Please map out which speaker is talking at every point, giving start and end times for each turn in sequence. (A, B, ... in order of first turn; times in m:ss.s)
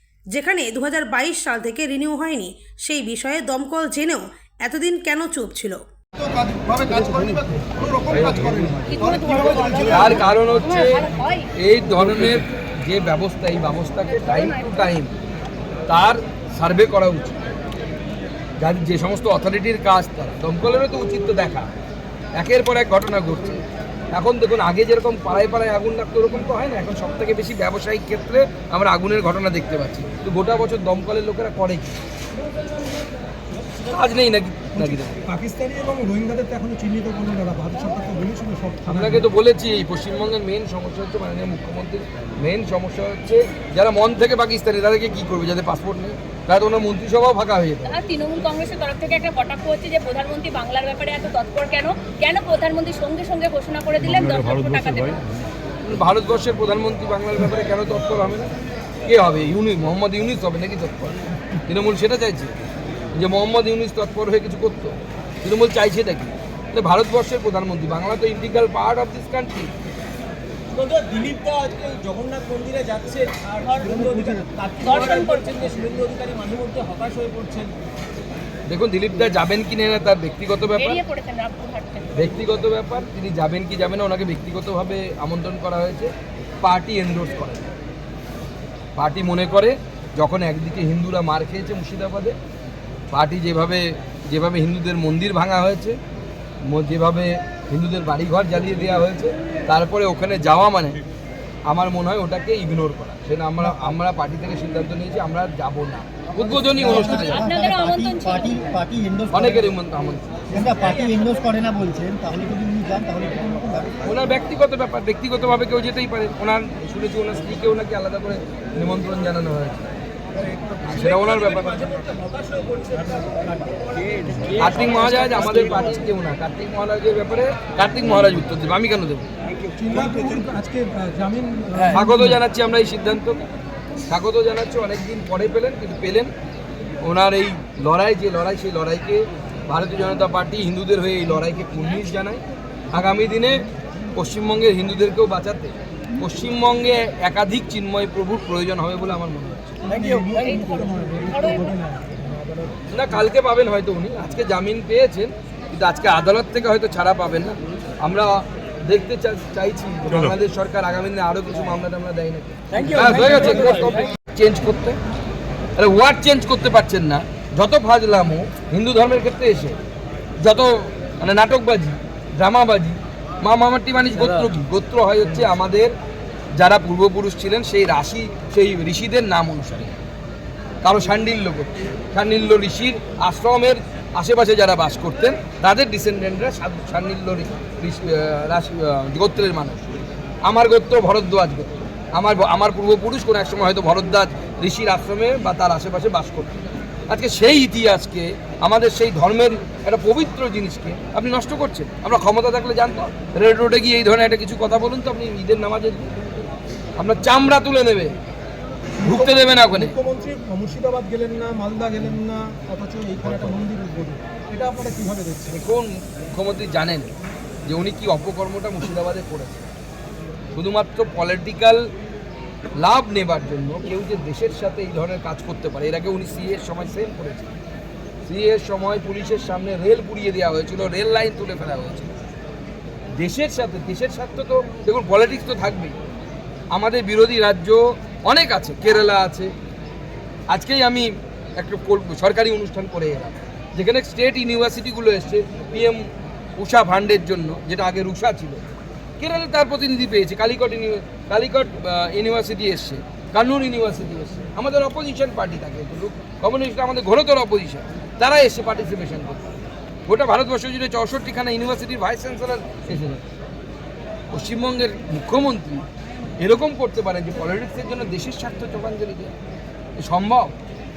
0:00.3-0:05.8 A
0:06.2-0:10.4 B
0:08.1-0:08.8 C
0:08.8-0:11.5 D
0:09.7-0:15.1 C
0:14.1-0:14.7 D
0:15.9-0:17.4 C
0:18.6-0:21.7 C
0:22.3-0:32.0 C
0:33.8-0:35.2 C
0:34.7-0:39.2 B
0:38.9-0:48.0 C
0:47.8-0:55.2 D
0:55.8-0:58.5 C
0:59.0-1:01.2 C
1:01.7-1:02.5 C
1:03.1-1:09.7 C
1:10.7-1:17.7 E
1:13.8-1:14.4 F
1:14.8-1:15.8 D
1:18.7-1:21.0 C
1:20.7-1:22.3 D
1:22.1-1:27.7 C
1:29.0-1:32.4 C
1:33.1-1:36.0 C
1:36.7-1:41.0 C
1:41.6-1:47.5 C
1:46.4-1:49.7 F
1:46.9-1:48.6 D
1:49.3-1:50.2 C
1:50.5-1:54.0 F
1:50.5-1:51.5 E
1:54.0-1:59.9 C
2:00.3-2:06.1 E
2:00.8-2:01.8 C
2:04.5-2:09.2 C
2:09.8-2:12.4 B
2:11.9-2:13.4 C
2:14.1-2:16.3 C
2:17.0-2:29.8 C
2:29.8-2:33.2 B
2:30.3-2:31.7 D
2:32.9-2:45.0 C
2:42.8-2:43.9 F
2:42.8-2:43.9 E
2:45.8-2:49.8 C
2:50.4-2:55.9 C
2:56.6-3:00.0 C
3:00.8-3:09.9 C
3:10.4-3:26.2 C
3:27.0-3:28.2 C
3:29.0-3:35.6 B
3:29.0-3:29.9 C
3:35.5-3:37.1 C
3:37.6-3:39.7 C
3:40.5-3:41.8 C
3:42.8-3:47.5 C
3:48.2-3:52.1 C
3:53.2-3:56.0 C
3:56.7-3:59.5 C
4:00.5-4:06.0 C
4:06.6-4:08.6 C
4:09.2-4:19.5 C
4:20.1-4:23.2 C
4:24.3-4:25.8 C
4:26.4-4:29.3 C
4:30.0-4:30.5 C